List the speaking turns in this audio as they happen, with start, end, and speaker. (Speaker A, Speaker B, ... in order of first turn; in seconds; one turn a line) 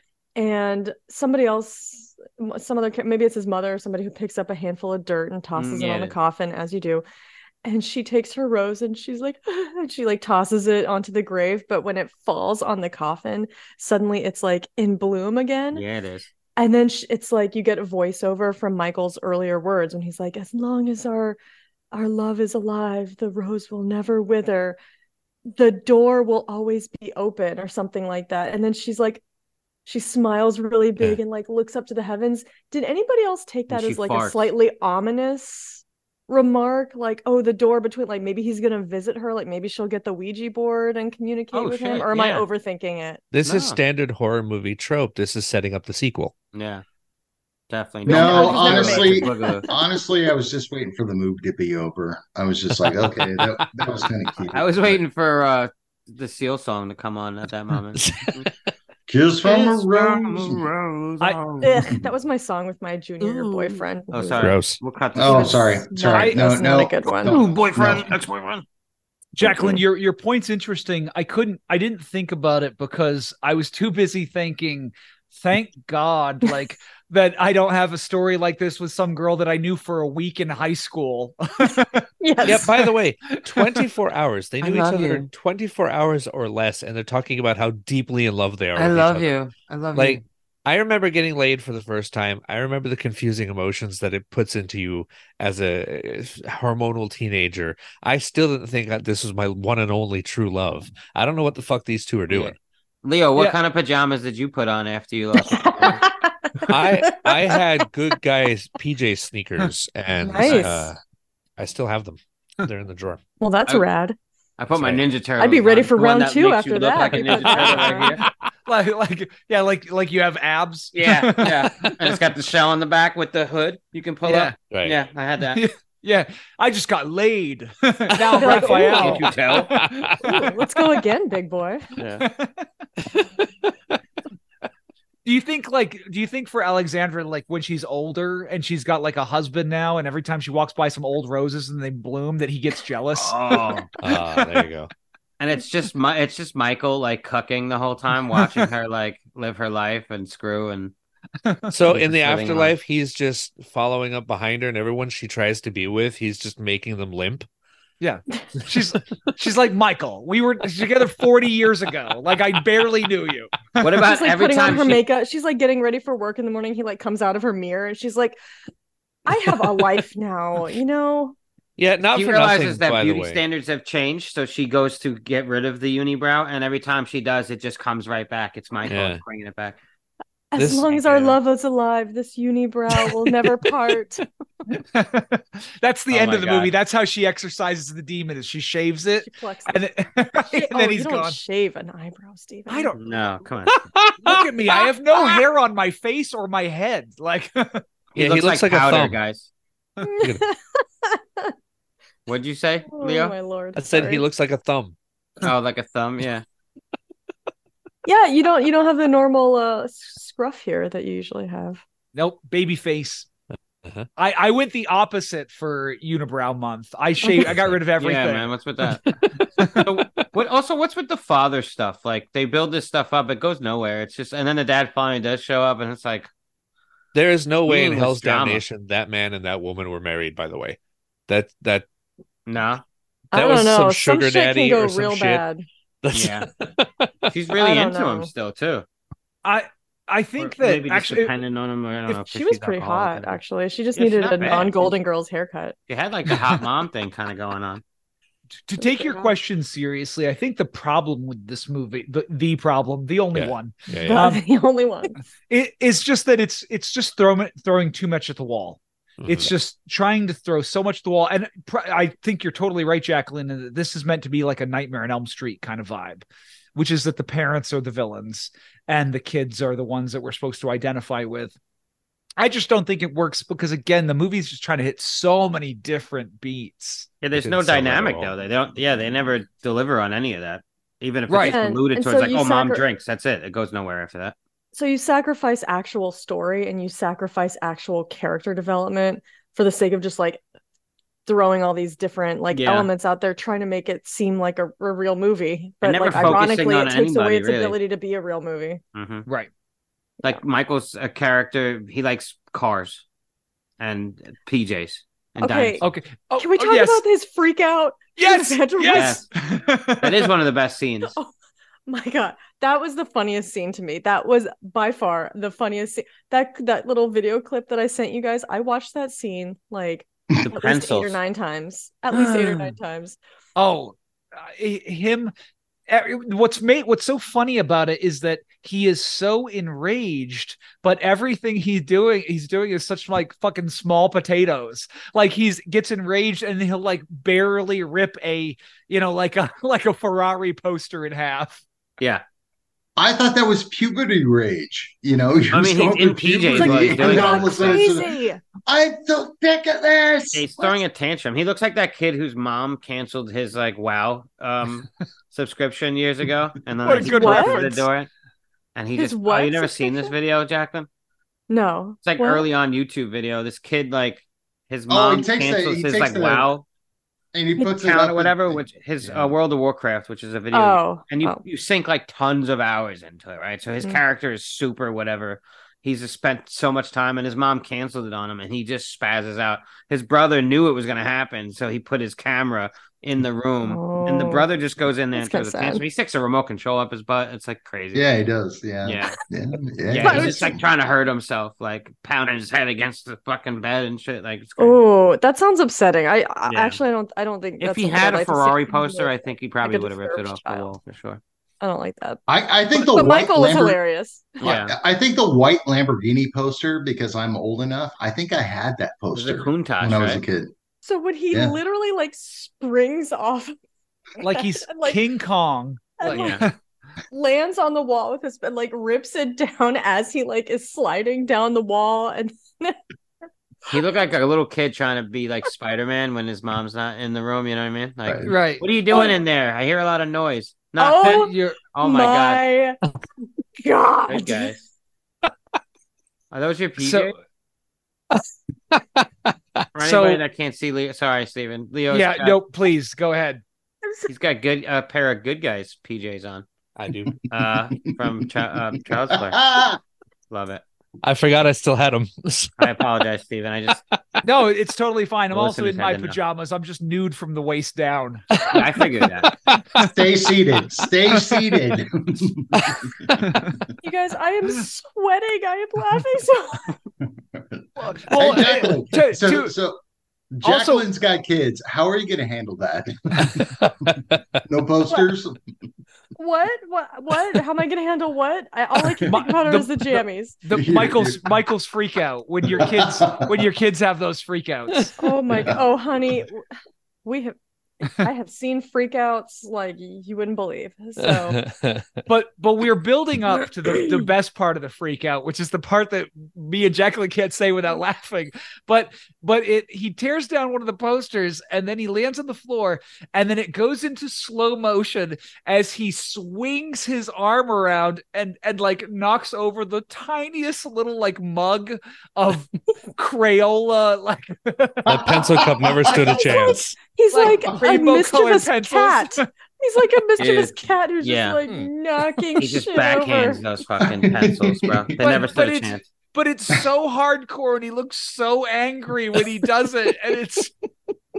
Speaker A: 0.4-7.0
Speaker B: 5.6-6.2
Speaker A: 7.6-15.8
Speaker B: 15.7-16.3
Speaker A: 16.6-21.4
Speaker A: 21.9-24.8
Speaker A: 25.5-29.2
Speaker A: 29.9-43.2
Speaker B: 33.7-34.5
Speaker B: 41.5-42.5
Speaker C: 43.3-46.3
Speaker B: 43.4-43.8
Speaker B: 46.5-46.8
Speaker B: 47.7-49.7
Speaker A: 48.1-50.0
Speaker D: 48.1-55.0
Speaker C: 53.2-53.9
Speaker B: 54.5-58.5
Speaker C: 58.0-58.5
Speaker D: 59.1-60.7
Speaker B: 59.5-61.8
Speaker A: 61.6-64.6
Speaker B: 63.2-65.8
Speaker C: 64.4-64.8
Speaker D: 65.2-68.1
Speaker A: 65.3-67.4
Speaker E: 66.1-66.5
Speaker B: 67.2-68.6
Speaker E: 69.3-82.7
Speaker A: 81.7-82.8
Speaker C: 82.4-89.3
Speaker E: 83.4-83.8
Speaker B: 84.6-85.3
Speaker B: 88.8-90.2
Speaker C: 90.0-102.6
Speaker B: 102.3-106.0
Speaker A: 105.4-107.8
Speaker C: 106.7-111.0
Speaker A: 110.2-110.9
Speaker B: 110.4-110.7
Speaker C: 111.6-113.2
Speaker A: 113.4-114.2
Speaker B: 114.6-118.2
Speaker C: 114.8-115.0
Speaker A: 115.4-118.2
Speaker E: 117.2-121.8
Speaker B: 120.9-125.6
Speaker E: 124.2-124.6
Speaker C: 124.7-125.0
Speaker E: 125.5-130.6
Speaker A: 128.3-129.3
Speaker B: 128.4-129.7
Speaker C: 129.6-130.4
Speaker A: 130.2-131.9
Speaker B: 132.0-132.2
Speaker E: 132.2-132.7
Speaker C: 133.1-133.7
Speaker E: 135.2-144.6
Speaker B: 143.2-143.9
Speaker C: 144.0-144.9
Speaker B: 145.4-150.9
Speaker E: 151.4-151.8
Speaker C: 151.7-157.5
Speaker B: 151.9-152.8
Speaker E: 158.0-164.0
Speaker B: 163.8-165.1
Speaker A: 164.0-168.4
Speaker A: 169.3-171.4
Speaker C: 171.8-173.4
Speaker B: 172.1-179.8
Speaker C: 178.9-179.2
Speaker A: 180.5-184.2
Speaker C: 180.6-181.4
Speaker E: 184.7-191.4
Speaker B: 186.1-186.7
Speaker A: 189.2-189.8
Speaker A: 190.5-193.0
Speaker E: 192.7-193.0
Speaker B: 192.9-193.8
Speaker E: 193.8-197.8
Speaker A: 195.2-195.4
Speaker B: 198.1-199.5
Speaker C: 198.2-199.2
Speaker A: 200.0-201.5
Speaker B: 202.3-203.4
Speaker A: 202.9-204.2
Speaker C: 203.8-204.9
Speaker B: 205.4-206.4
Speaker A: 208.1-211.8
Speaker E: 212.1-213.3
Speaker E: 214.2-218.5
Speaker A: 217.2-217.5
Speaker B: 218.0-219.0
Speaker C: 219.1-219.3
Speaker E: 219.4-219.9
Speaker B: 219.8-226.3
Speaker C: 227.1-231.9
Speaker B: 227.7-228.6
Speaker B: 232.5-232.8
Speaker C: 233.3-235.4
Speaker A: 233.3-235.7
Speaker C: 236.0-237.3
Speaker B: 236.1-236.5
Speaker B: 237.3-238.9
Speaker A: 237.6-238.3
Speaker E: 239.4-241.3
Speaker B: 240.4-243.4
Speaker A: 242.1-245.8
Speaker B: 243.9-244.9
Speaker B: 245.9-247.8
Speaker E: 246.3-246.6
Speaker E: 248.7-254.4
Speaker A: 248.8-249.3
Speaker C: 253.3-254.3
Speaker A: 254.1-255.1
Speaker E: 255.5-271.6
Speaker C: 259.2-259.5
Speaker E: 272.4-277.1
Speaker B: 277.2-284.4
Speaker C: 277.4-279.1
Speaker E: 281.3-281.6
Speaker A: 281.4-282.8
Speaker A: 284.7-290.4
Speaker A: 291.3-298.8
Speaker B: 292.5-292.9
Speaker B: 295.8-297.8
Speaker E: 296.1-296.5
Speaker B: 298.9-299.3
Speaker B: 300.2-303.1
Speaker B: 303.8-305.8
Speaker A: 305.4-305.8
Speaker E: 305.8-307.0
Speaker A: 306.4-309.2
Speaker E: 308.2-310.3
Speaker B: 308.9-309.3
Speaker B: 310.0-311.2
Speaker A: 311.1-311.3
Speaker A: 311.9-323.2
Speaker B: 320.4-321.2
Speaker B: 322.1-322.7
Speaker E: 323.6-325.3
Speaker E: 325.9-341.6
Speaker D: 343.0-350.8
Speaker B: 345.5-347.9
Speaker A: 346.5-348.4
Speaker B: 350.3-358.1
Speaker E: 356.9-357.9
Speaker A: 356.9-357.7
Speaker B: 358.8-360.9
Speaker A: 359.0-360.1
Speaker A: 361.5-362.5
Speaker B: 362.0-366.7
Speaker D: 364.9-366.5
Speaker D: 367.3-369.3
Speaker B: 367.6-388.1
Speaker A: 370.5-371.4
Speaker A: 383.6-384.5
Speaker A: 385.1-385.8
Speaker D: 387.9-390.6
Speaker B: 388.8-389.2
Speaker B: 389.9-394.8
Speaker A: 390.0-390.6
Speaker A: 394.6-400.7
Speaker B: 396.5-396.8
Speaker B: 397.6-401.2
Speaker A: 401.6-402.2
Speaker D: 402.3-403.8
Speaker A: 402.7-404.5
Speaker D: 404.4-410.5
Speaker B: 404.4-404.7
Speaker B: 409.1-410.2
Speaker A: 410.8-413.6
Speaker D: 411.3-411.6
Speaker A: 414.2-415.0
Speaker E: 414.2-416.5
Speaker A: 416.0-416.4
Speaker B: 416.1-416.5
Speaker A: 417.1-422.8
Speaker B: 423.7-432.4
Speaker D: 428.1-428.4
Speaker E: 428.3-428.6
Speaker A: 428.9-429.2
Speaker A: 430.8-432.8
Speaker E: 431.2-431.6
Speaker A: 433.6-434.6
Speaker B: 434.1-434.6
Speaker B: 436.3-437.2
Speaker E: 436.8-437.1
Speaker B: 439.8-442.4
Speaker E: 439.8-440.2
Speaker E: 441.9-443.4
Speaker A: 443.9-444.1
Speaker B: 444.1-446.5
Speaker C: 446.8-447.3
Speaker B: 447.3-449.4
Speaker D: 448.9-449.8
Speaker B: 450.3-450.6
Speaker C: 451.0-452.6
Speaker B: 452.6-453.8
Speaker E: 454.2-458.2
Speaker B: 455.3-456.2
Speaker C: 458.3-458.6
Speaker B: 458.5-459.3
Speaker C: 459.2-459.9
Speaker D: 459.8-463.1
Speaker E: 461.1-461.4
Speaker E: 463.2-463.6
Speaker A: 463.8-466.8
Speaker D: 467.4-469.8
Speaker E: 467.8-469.5
Speaker D: 470.3-475.4
Speaker E: 470.4-470.9
Speaker C: 473.6-474.4
Speaker A: 476.2-480.4
Speaker E: 479.1-484.9
Speaker D: 480.5-481.3
Speaker D: 482.5-483.4
Speaker A: 485.0-486.5
Speaker D: 485.4-486.2
Speaker A: 487.1-491.4
Speaker C: 491.0-492.0
Speaker E: 492.1-514.9
Speaker A: 493.3-494.1
Speaker D: 514.9-516.2
Speaker C: 514.9-516.8
Speaker A: 515.8-523.4
Speaker E: 517.1-519.2
Speaker B: 520.2-521.4
Speaker B: 522.4-525.9
Speaker D: 524.0-525.1
Speaker E: 525.0-530.5